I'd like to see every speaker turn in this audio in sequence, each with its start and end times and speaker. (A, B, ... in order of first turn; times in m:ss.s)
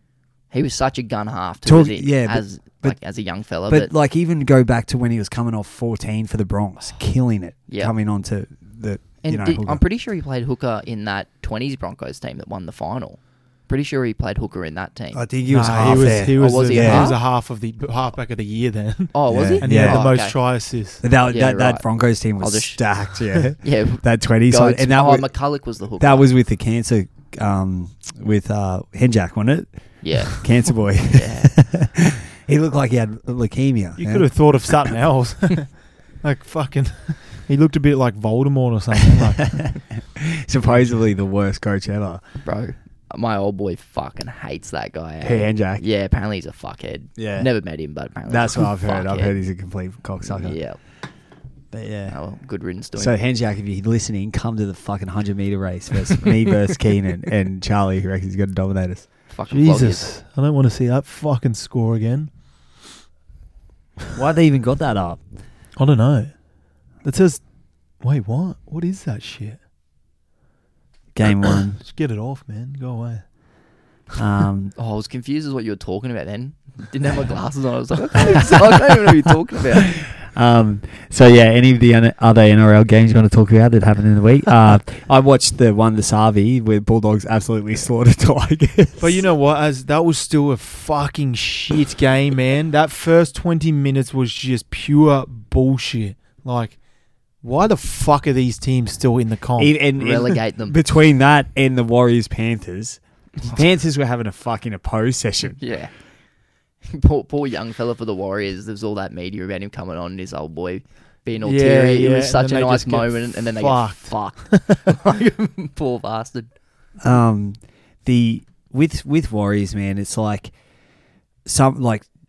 0:00.5-0:03.9 A
0:01.6-0:03.0 B
0:03.7-0:09.8 B
0:07.7-0:07.9 A
0:09.2-0:17.2 A
0:15.1-0:17.1 B
0:15.5-0:21.0 C
0:19.1-0:20.4 A
0:19.3-0:20.0 B
0:21.0-0:25.3 B
0:21.3-0:21.9 A
0:22.4-0:26.3 A
0:26.0-0:34.9 B
0:30.0-0:30.5 A
0:31.1-0:31.5 A
0:34.0-0:39.8 C
0:39.6-0:42.2 B
0:40.6-0:41.0 C
0:42.4-0:49.3 A
0:45.2-0:45.8 B
0:47.2-0:47.5 B
0:48.3-0:50.6 B
0:50.2-0:50.8 A
0:51.7-0:52.2 B
0:52.1-0:53.1 A
0:53.0-0:59.1 B
0:59.3-1:00.1 A
0:59.5-1:02.3 C
1:04.1-1:05.2 B
1:05.8-1:06.3 C
1:07.0-1:07.4 C
1:08.0-1:09.6 C
1:11.1-1:11.8 B
1:11.8-1:13.2 C
1:14.1-1:14.7 B
1:14.8-1:20.0 A
1:18.3-1:18.8 B
1:20.0-1:29.2 B
1:29.0-1:36.8 C
1:37.4-1:39.8 C
1:39.6-1:45.6 B
1:40.0-1:40.8 A
1:45.6-1:46.0 A
1:46.8-1:56.5 A
1:51.4-1:54.8 C
1:57.0-2:00.5 B
2:01.4-2:02.0 B